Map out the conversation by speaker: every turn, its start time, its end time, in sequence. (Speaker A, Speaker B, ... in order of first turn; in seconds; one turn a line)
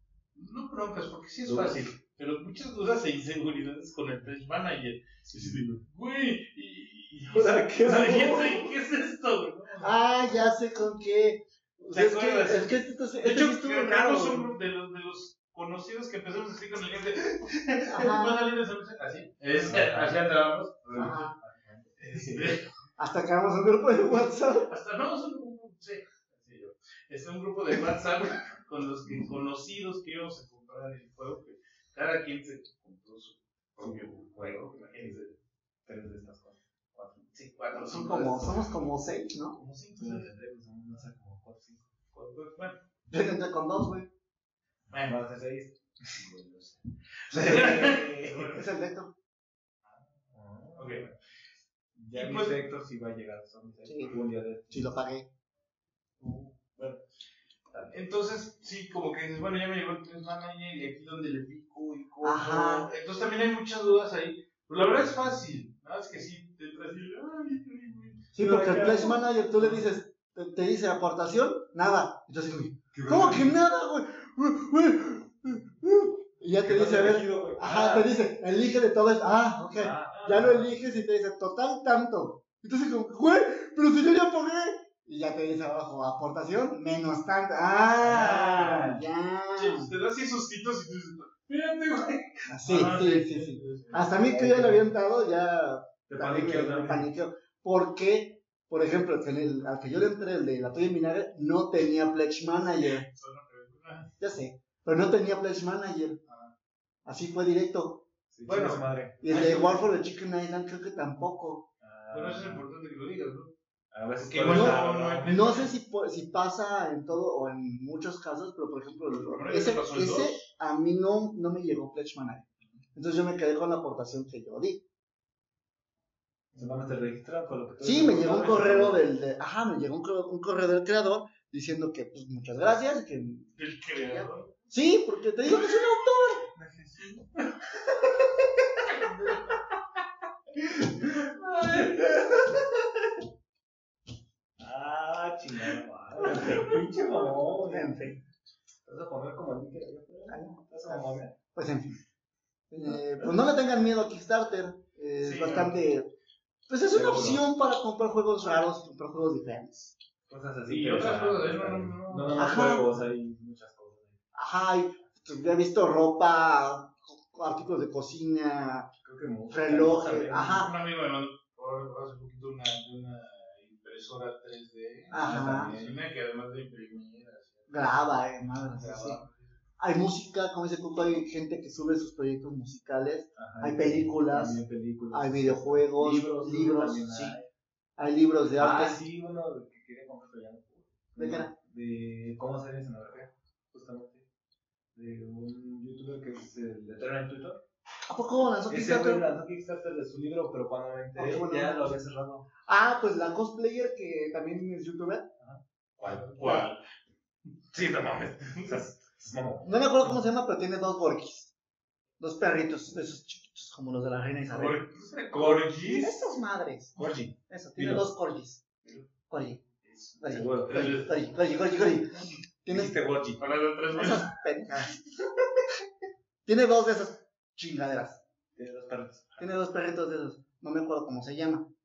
Speaker A: 0.3-10.0
Speaker B: 1.4-1.9
Speaker B: 5.3-5.8
Speaker B: 7.1-8.7
Speaker C: 9.8-14.5
Speaker A: 11.9-20.9
Speaker C: 17.9-18.5
Speaker B: 19.6-20.2
Speaker B: 20.8-22.5
Speaker C: 20.9-21.3
Speaker A: 22.0-22.6
Speaker C: 23.0-24.7
Speaker A: 24.7-35.3
Speaker B: 33.8-35.3
Speaker B: 35.9-37.3
Speaker A: 37.3-38.6
Speaker C: 37.8-39.6
Speaker A: 39.5-40.3
Speaker B: 40.0-41.9
Speaker A: 42.1-42.8
Speaker C: 43.1-44.1
Speaker A: 44.9-45.2
Speaker B: 45.0-46.2
Speaker A: 46.1-48.7
Speaker B: 47.3-48.3
Speaker C: 47.3-49.1
Speaker B: 50.3-51.2
Speaker A: 50.8-51.0
Speaker B: 52.0-54.9
Speaker A: 52.1-52.6
Speaker C: 53.9-54.2
Speaker C: 54.7-55.3
Speaker A: 56.2-57.0
Speaker A: 57.9-69.2
Speaker C: 62.2-62.9
Speaker C: 68.3-89.9
Speaker B: 72.9-73.5
Speaker B: 76.6-78.1
Speaker B: 79.7-80.8
Speaker B: 88.0-89.0
Speaker A: 89.6-94.3
Speaker C: 92.5-103.1
Speaker B: 94.2-94.8
Speaker B: 96.1-97.1
Speaker A: 103.0-104.1
Speaker C: 104.2-106.2
Speaker A: 106.3-106.5
Speaker C: 107.0-108.0
Speaker B: 108.3-109.8
Speaker A: 108.5-108.8
Speaker C: 109.2-111.7
Speaker B: 111.8-112.6
Speaker A: 112.1-113.5
Speaker B: 113.9-115.4
Speaker A: 114.2-115.7
Speaker C: 114.5-124.8
Speaker A: 119.2-120.4
Speaker B: 126.5-129.1
Speaker C: 127.8-136.5
Speaker A: 133.6-134.5
Speaker B: 136.5-137.3
Speaker A: 138.9-139.5
Speaker B: 140.6-142.9
Speaker A: 141.2-142.2
Speaker B: 144.6-148.1
Speaker C: 146.2-146.7
Speaker A: 146.3-146.6
Speaker C: 147.6-148.2
Speaker B: 148.8-151.4
Speaker C: 150.3-151.9
Speaker C: 152.7-156.1
Speaker A: 155.2-155.8
Speaker C: 156.7-159.9
Speaker B: 156.9-157.4
Speaker B: 160.3-164.2
Speaker A: 160.7-162.8
Speaker C: 162.3-162.9
Speaker C: 164.3-168.9
Speaker B: 169.0-170.7
Speaker C: 169.5-170.7
Speaker A: 170.6-177.7
Speaker C: 175.1-175.7
Speaker B: 175.1-176.0
Speaker C: 177.7-179.2
Speaker B: 178.8-179.2
Speaker A: 179.0-179.3
Speaker C: 179.8-187.4
Speaker B: 183.3-187.5
Speaker C: 188.0-189.0
Speaker B: 188.6-194.2
Speaker C: 191.2-191.5
Speaker B: 194.9-197.6
Speaker C: 198.1-199.3
Speaker B: 198.7-202.5
Speaker C: 201.1-202.0
Speaker C: 202.6-205.3
Speaker B: 205.4-206.4
Speaker A: 206.0-206.8
Speaker C: 206.4-206.7
Speaker B: 207.7-209.7
Speaker C: 209.6-211.5
Speaker C: 212.2-214.9
Speaker A: 214.5-216.2
Speaker B: 215.0-216.1
Speaker C: 215.9-218.7
Speaker B: 216.9-218.1
Speaker C: 219.3-219.6
Speaker C: 220.2-222.9
Speaker B: 220.2-221.1
Speaker A: 220.7-221.2
Speaker B: 222.7-223.4
Speaker A: 223.4-224.3
Speaker C: 223.9-225.0
Speaker C: 226.4-228.2
Speaker B: 228.6-229.4
Speaker C: 229.4-231.7